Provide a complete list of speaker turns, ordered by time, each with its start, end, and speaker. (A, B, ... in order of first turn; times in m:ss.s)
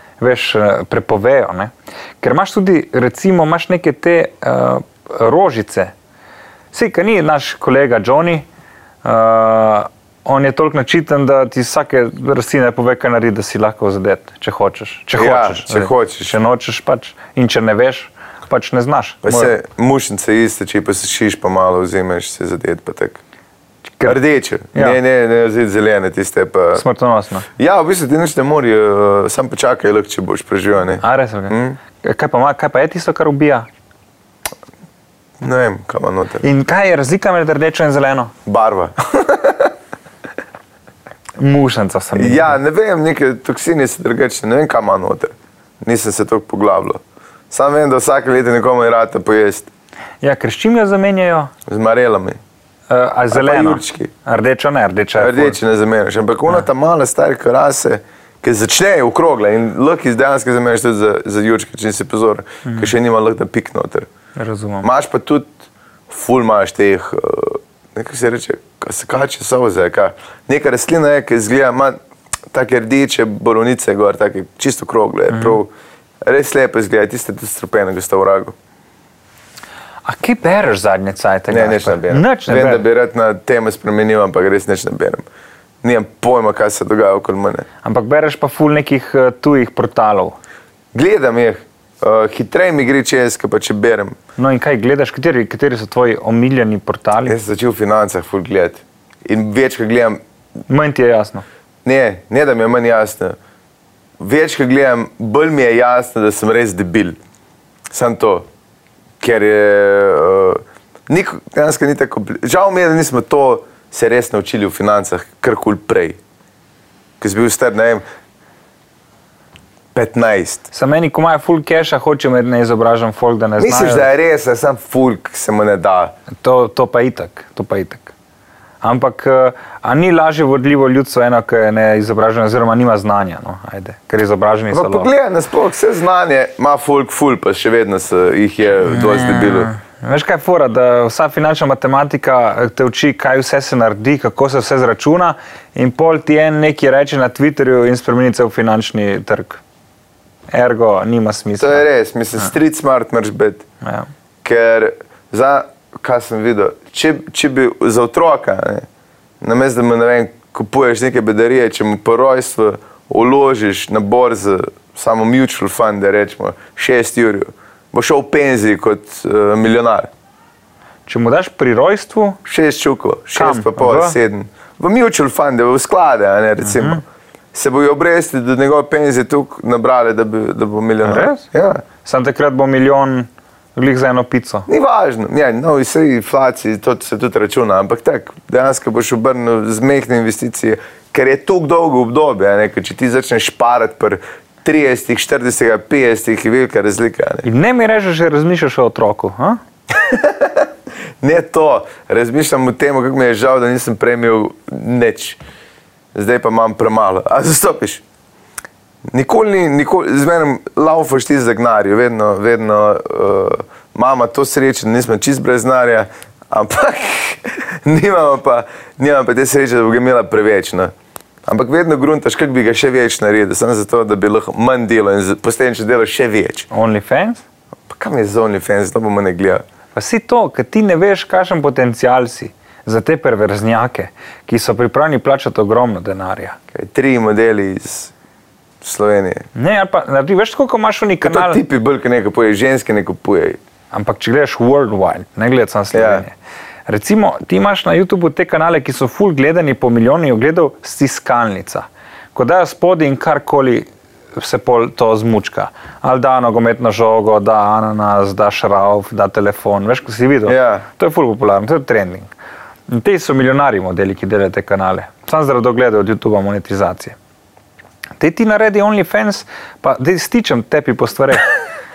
0:00.2-0:05.9 A
0:06.7-0:08.5 A
0:09.0-0:19.5 A
0:15.2-0:16.3 B
0:19.2-0:23.2 B
0:24.1-0:26.8 B
0:26.8-0:27.5 A
0:27.6-0:31.8 B
0:31.0-0:33.7 A
0:35.4-0:36.4 B
0:36.4-0:38.3 A
0:38.5-0:39.7 B
0:41.4-0:42.6 A
0:42.2-0:49.7 B
0:50.2-0:51.5 A
0:51.7-0:52.4 B
0:52.9-0:55.6 A
0:53.3-0:54.1 B
0:55.2-1:04.1 B
1:04.4-1:04.9 A
1:04.8-1:05.5 B
1:06.1-1:12.0 B
1:12.5-1:15.7 B
1:15.3-1:15.6 A
1:16.2-1:18.6 B
1:20.1-1:22.9 A
1:21.5-1:25.2 B
1:25.8-1:27.7 B
1:27.8-1:30.4 A
1:30.9-1:34.2 B
1:34.4-1:37.4 A
1:37.3-1:40.2 B
1:40.7-1:41.4 A
1:41.8-1:43.4 B
1:44.2-1:47.2 B
1:47.9-1:48.5 B
1:49.2-1:56.2 B
1:57.2-1:58.0 B
1:59.9-2:00.7 B
2:00.7-2:04.1 A
2:03.6-2:06.1 B
2:06.4-2:08.1 A
2:08.8-2:15.1 A
2:14.7-2:19.7 B
2:18.9-2:29.6 A
2:30.5-2:31.8 A
2:31.6-2:33.6 B
2:33.8-2:34.1 A
2:34.4-2:38.9 B
2:39.4-2:50.1 B
2:51.1-2:52.4 A
2:52.5-2:57.0 B
2:53.3-2:54.2 A
2:56.6-2:57.0 A
2:57.5-3:01.8 B
3:01.0-3:01.5 A
3:02.0-3:04.7 A
3:04.7-3:17.5 B
3:17.4-3:19.6 A
3:19.9-3:20.7 B
3:21.2-3:25.4 B
3:26.1-3:28.0 B
3:29.1-3:40.9 B
3:41.5-3:46.7 B
3:46.7-3:47.4 A
3:47.9-3:49.6 B
3:49.9-3:56.6 A
3:56.7-3:58.1 B
3:58.8-3:59.5 B
3:59.6-4:01.6 A
4:01.2-4:03.6 B
4:03.9-4:06.4 A
4:05.9-4:06.2 B
4:06.9-4:22.3 A
4:20.5-4:20.8 B
4:22.9-4:27.2 A
4:28.2-4:31.5 A